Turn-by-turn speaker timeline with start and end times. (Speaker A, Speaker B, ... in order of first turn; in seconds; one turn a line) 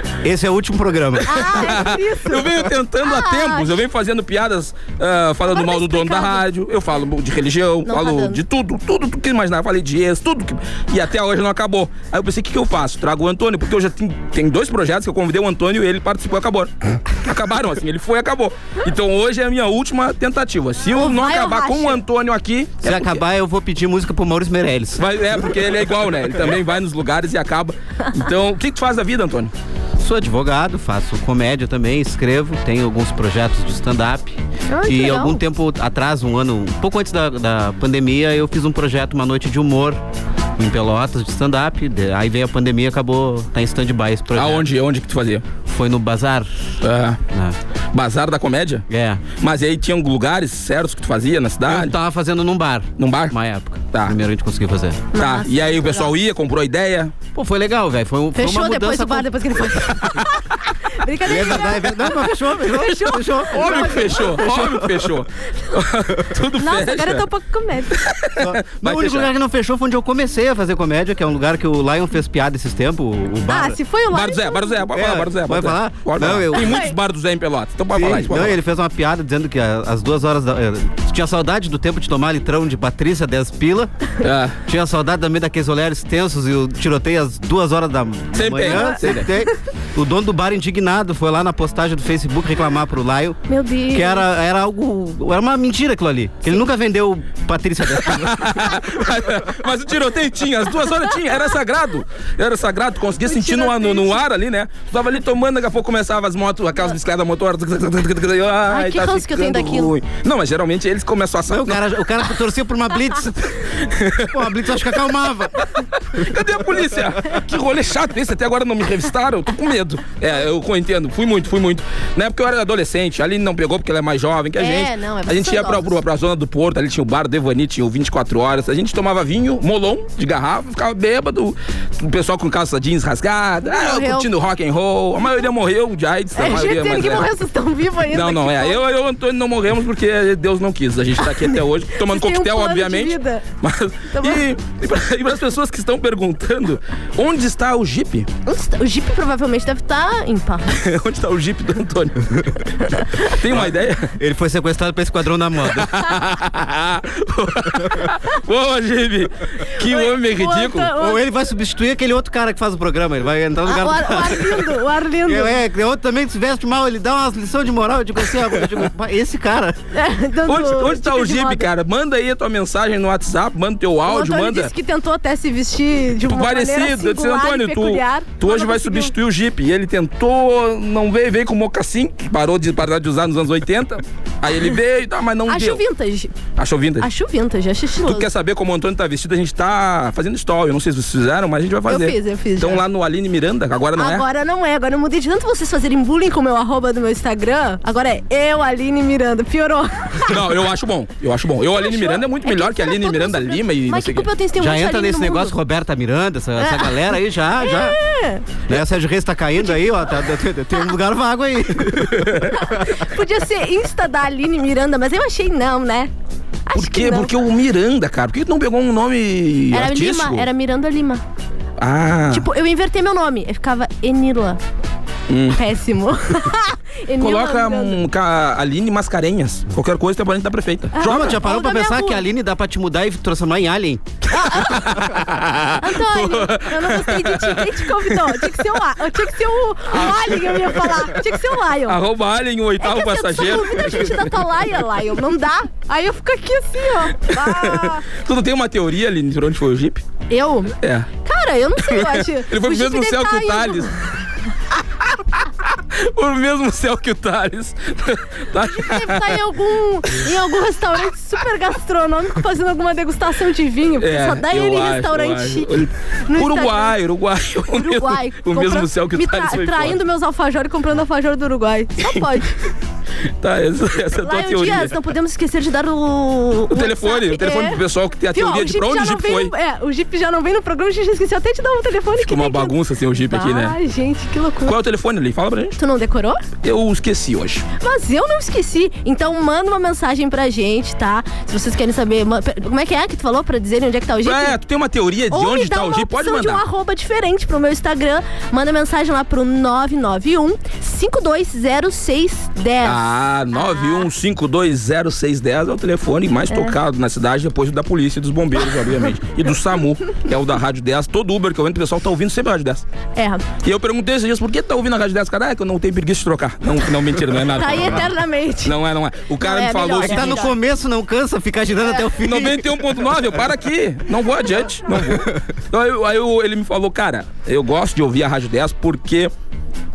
Speaker A: 0.2-1.5
Speaker B: 1.2-23.2
Speaker C: 1.2-3.7
Speaker C: 5.5-6.4
Speaker C: 7.9-8.4
Speaker C: 20.9-22.0
Speaker A: 22.8-25.5
Speaker B: 25.0-29.5
Speaker A: 30.0-40.0
Speaker C: 34.7-35.4
Speaker A: 40.6-44.7
Speaker B: 44.4-45.5
Speaker A: 45.6-46.6
Speaker B: 46.8-47.2
Speaker A: 47.3-47.6
Speaker B: 47.9-48.9
Speaker A: 48.9-49.2
Speaker B: 49.4-51.9
Speaker A: 51.7-55.1
Speaker B: 53.0-53.4
Speaker B: 53.9-54.2
Speaker C: 55.1-56.1
Speaker B: 55.2-57.1
Speaker A: 57.4-59.5
Speaker C: 58.4-64.5
Speaker A: 61.2-65.0
Speaker B: 63.5-67.3
Speaker C: 66.6-68.0
Speaker B: 67.9-69.3
Speaker A: 68.4-73.8
Speaker C: 73.5-74.8
Speaker B: 74.1-78.6
Speaker A: 74.9-76.8
Speaker C: 76.5-76.9
Speaker A: 77.9-83.9
Speaker B: 84.2-84.6
Speaker A: 84.7-93.4
Speaker B: 88.3-89.3
Speaker C: 88.7-89.0
Speaker C: 93.5-94.3
Speaker A: 93.9-98.7
Speaker B: 98.0-111.8
Speaker C: 103.2-104.2
Speaker C: 108.7-109.9
Speaker A: 111.5-113.7
Speaker B: 113.8-114.8
Speaker A: 114.3-115.6
Speaker B: 116.2-137.3
Speaker C: 124.6-126.0
Speaker C: 133.6-134.3
Speaker C: 136.3-138.8
Speaker B: 138.1-148.3
Speaker C: 141.2-143.4
Speaker C: 144.1-144.4
Speaker C: 148.5-150.8
Speaker B: 150.7-152.7
Speaker C: 152.9-153.3
Speaker B: 153.2-154.1
Speaker A: 153.5-156.0
Speaker B: 155.8-161.0
Speaker C: 159.8-161.3
Speaker A: 161.0-169.8
Speaker C: 163.7-165.6
Speaker C: 169.9-171.7
Speaker B: 170.5-174.7
Speaker C: 174.1-179.1
Speaker B: 176.3-185.8
Speaker C: 185.5-186.3
Speaker B: 186.6-187.1
Speaker C: 187.0-188.3
Speaker B: 188.1-194.2
Speaker C: 191.9-192.8
Speaker C: 194.0-200.4
Speaker B: 200.3-204.3
Speaker C: 201.7-205.6
Speaker A: 204.6-208.0
Speaker C: 206.6-208.6
Speaker A: 208.7-212.5
Speaker C: 209.6-210.1
Speaker B: 212.1-212.5
Speaker C: 212.5-216.1
Speaker C: 216.7-217.3
Speaker B: 216.8-220.5
Speaker C: 219.7-221.2
Speaker B: 221.8-222.5
Speaker C: 222.3-224.6
Speaker B: 225.3-225.6
Speaker C: 225.6-228.0
Speaker B: 227.2-231.4
Speaker C: 230.9-232.2
Speaker A: 231.0-234.0
Speaker C: 234.3-235.0
Speaker B: 234.4-238.5
Speaker C: 235.8-242.0
Speaker B: 239.9-241.2
Speaker B: 241.9-244.3
Speaker C: 242.8-248.1
Speaker B: 247.3-250.0
Speaker C: 250.3-253.9
Speaker B: 250.8-251.1
Speaker B: 251.9-253.9
Speaker B: 255.7-259.4
Speaker C: 258.6-267.0
Speaker B: 264.0-270.0
Speaker C: 267.7-272.6
Speaker B: 273.4-275.0
Speaker C: 274.2-277.8
Speaker B: 276.7-279.5
Speaker C: 278.3-282.8
Speaker B: 282.2-283.8
Speaker C: 283.3-284.8
Speaker B: 284.7-285.8
Speaker C: 285.8-286.4
Speaker B: 286.6-287.7
Speaker C: 287.8-294.6
Speaker B: 294.2-296.6
Speaker C: 295.3-303.0
Speaker B: 302.8-312.8
Speaker C: 303.5-304.1
Speaker C: 306.5-306.8
Speaker C: 313.2-313.4
Speaker B: 313.6-320.5
Speaker C: 317.6-318.8
Speaker C: 319.4-320.5
Speaker A: 319.9-322.7
Speaker B: 322.2-329.3